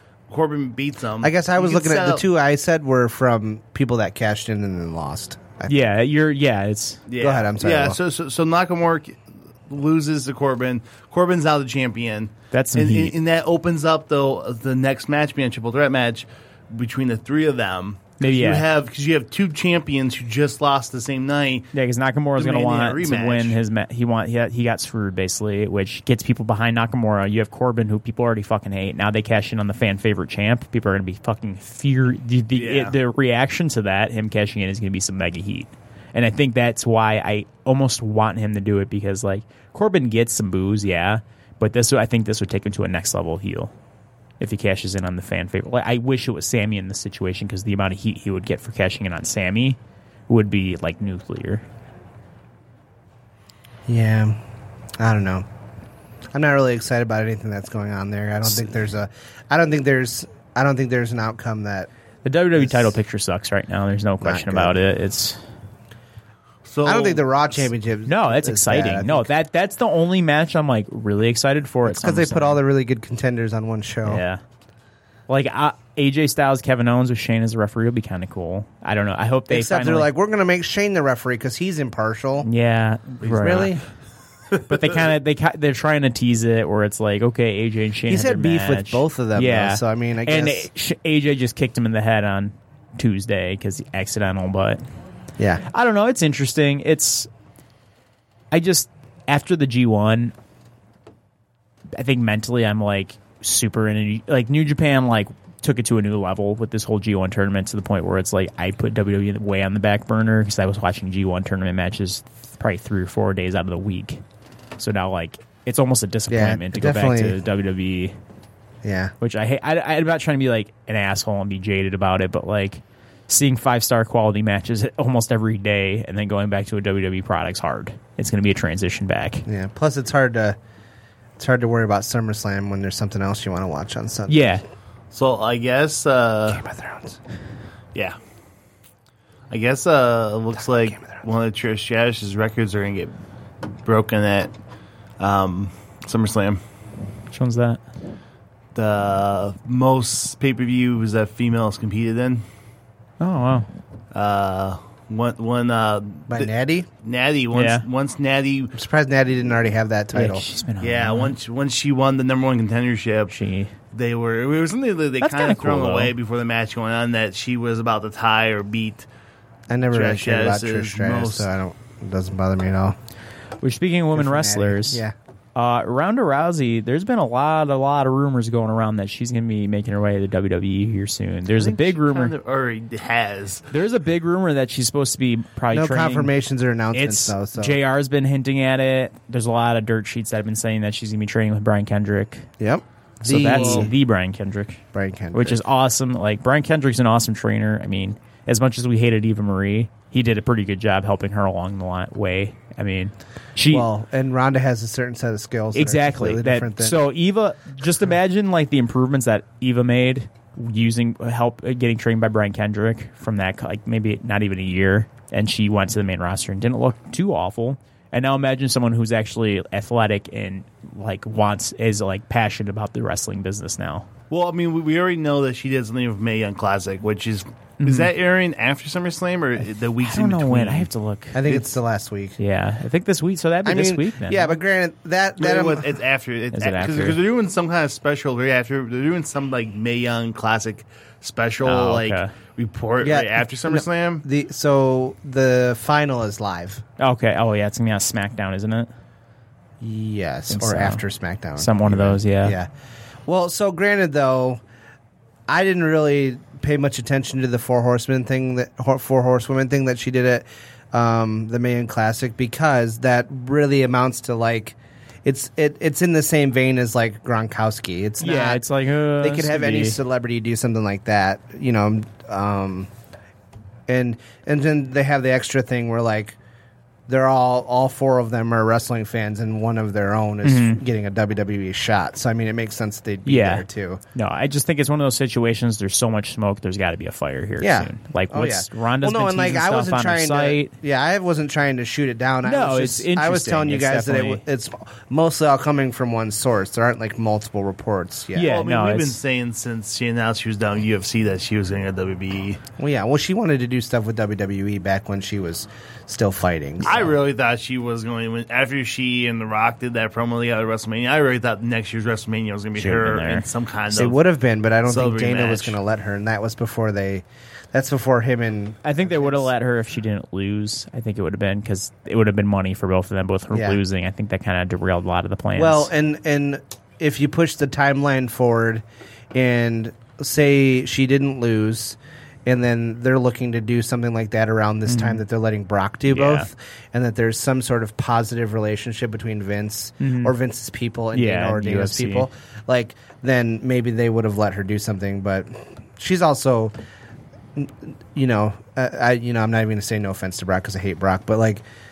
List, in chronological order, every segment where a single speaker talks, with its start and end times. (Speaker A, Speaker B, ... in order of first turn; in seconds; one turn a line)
Speaker A: 0.3-2.3
Speaker B: 1.2-5.7
Speaker C: 5.7-7.0
Speaker A: 7.1-21.7
Speaker B: 7.2-8.0
Speaker C: 12.5-13.2
Speaker C: 18.2-18.6
Speaker C: 21.7-43.7
Speaker A: 22.3-23.6
Speaker A: 32.5-33.0
Speaker C: 44.4-49.8
Speaker C: 50.3-51.6
Speaker B: 53.9-54.4
Speaker B: 55.0-55.5
Speaker B: 56.3-61.9
Speaker C: 62.2-65.4
Speaker B: 62.5-63.0
Speaker B: 64.2-64.7
Speaker A: 66.7-67.7
Speaker B: 66.8-69.3
Speaker C: 68.1-72.6
Speaker B: 71.8-74.2
Speaker C: 74.0-74.4
Speaker C: 75.3-80.1
Speaker B: 79.5-82.5
Speaker C: 82.4-83.7
Speaker B: 83.3-83.8
Speaker C: 84.7-94.8
Speaker B: 88.1-90.7
Speaker B: 95.4-95.6
Speaker C: 95.7-97.3
Speaker C: 98.5-100.3
Speaker C: 102.0-114.2
Speaker C: 114.8-118.1
Speaker B: 116.3-117.4
Speaker B: 118.8-119.1
Speaker C: 119.2-129.4
Speaker B: 129.4-130.6
Speaker B: 131.4-134.4
Speaker C: 134.3-134.6
Speaker A: 135.1-136.6
Speaker B: 136.5-137.2
Speaker A: 139.5-143.1
Speaker B: 140.6-141.1
Speaker A: 143.8-144.5
Speaker A: 145.2-146.6
Speaker C: 147.3-147.8
Speaker A: 148.7-152.4
Speaker C: 153.2-153.7
Speaker A: 154.1-156.5
Speaker B: 156.3-156.9
Speaker A: 157.0-158.7
Speaker C: 157.5-157.8
Speaker B: 158.7-160.4
Speaker C: 160.1-161.3
Speaker A: 160.8-163.3
Speaker C: 163.3-163.7
Speaker A: 163.9-169.1
Speaker C: 165.2-166.1
Speaker B: 169.7-173.0
Speaker A: 169.9-171.5
Speaker C: 173.6-175.0
Speaker B: 174.1-175.1
Speaker C: 175.6-182.3
Speaker A: 181.5-183.7
Speaker C: 183.7-186.3
Speaker B: 185.7-187.8
Speaker C: 186.9-192.5
Speaker B: 192.6-193.9
Speaker C: 193.2-194.8
Speaker A: 193.5-193.9
Speaker B: 194.9-195.6
Speaker C: 195.3-203.9
Speaker B: 203.7-207.0
Speaker C: 205.7-224.1
Speaker A: 224.3-230.9
Speaker C: 227.8-228.1
Speaker C: 230.0-231.6
Speaker B: 231.3-232.4
Speaker C: 232.4-234.6
Speaker B: 233.6-235.9
Speaker A: 235.4-244.2
Speaker C: 236.5-237.2
Speaker C: 241.6-242.3
Speaker B: 243.0-246.8
Speaker C: 247.0-248.9
Speaker B: 249.8-252.7
Speaker C: 250.5-251.0
Speaker C: 251.6-252.6
Speaker B: 253.2-254.6
Speaker B: 255.5-272.9
Speaker C: 268.2-270.0
Speaker B: 273.9-276.4
Speaker B: 277.1-284.0
Speaker C: 280.4-280.8
Speaker C: 283.2-290.7
Speaker B: 287.6-298.5
Speaker C: 292.4-294.4
Speaker C: 298.3-299.2
Speaker A: 298.4-302.6
Speaker B: 302.8-307.1
Speaker A: 306.8-314.2
Speaker C: 312.8-313.4
Speaker B: 313.9-319.5
Speaker A: 314.8-315.8
Speaker C: 318.8-325.9
Speaker B: 323.5-323.8
Speaker B: 325.6-346.7
Speaker C: 334.9-335.2
Speaker C: 336.1-336.5
Speaker C: 340.0-340.3
Speaker C: 341.1-342.3
Speaker B: 347.6-351.6